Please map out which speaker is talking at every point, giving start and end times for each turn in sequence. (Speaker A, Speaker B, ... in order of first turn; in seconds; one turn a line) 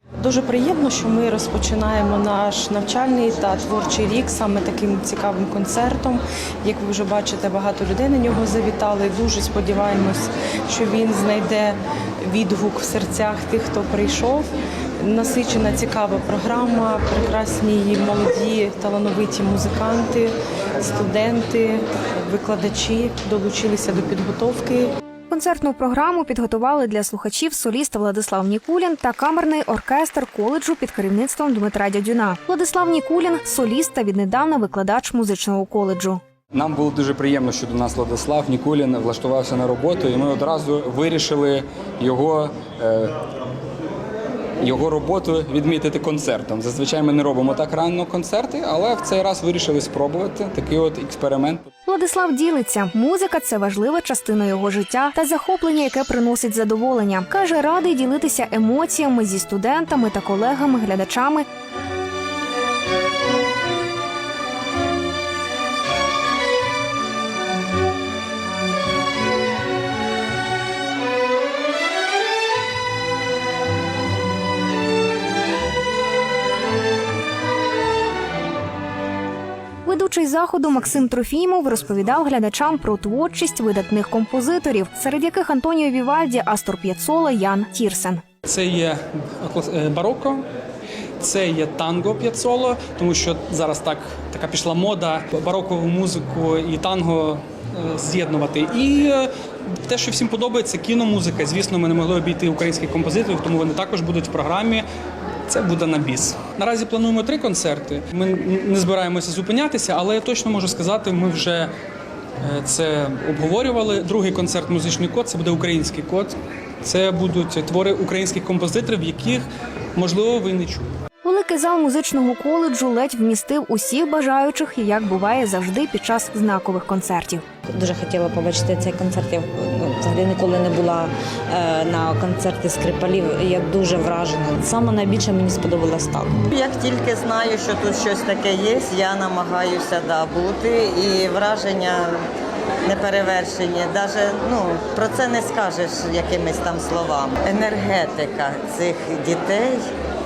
Speaker A: 0.2-14.5
Speaker A: 15.0-24.9
Speaker B: 25.3-36.2
Speaker C: 36.5-43.1
Speaker C: 44.6-51.7
Speaker B: 51.9-61.5
Speaker B: 79.9-88.2
Speaker D: 88.5-90.5
Speaker D: 91.2-99.3
Speaker D: 99.9-104.8
Speaker D: 105.5-111.7
Speaker D: 112.4-116.3
Speaker D: 116.8-119.5
Speaker D: 120.0-120.9
Speaker B: 121.2-127.5
Speaker E: 127.7-136.4
Speaker F: 136.5-142.1
Speaker F: 142.9-149.8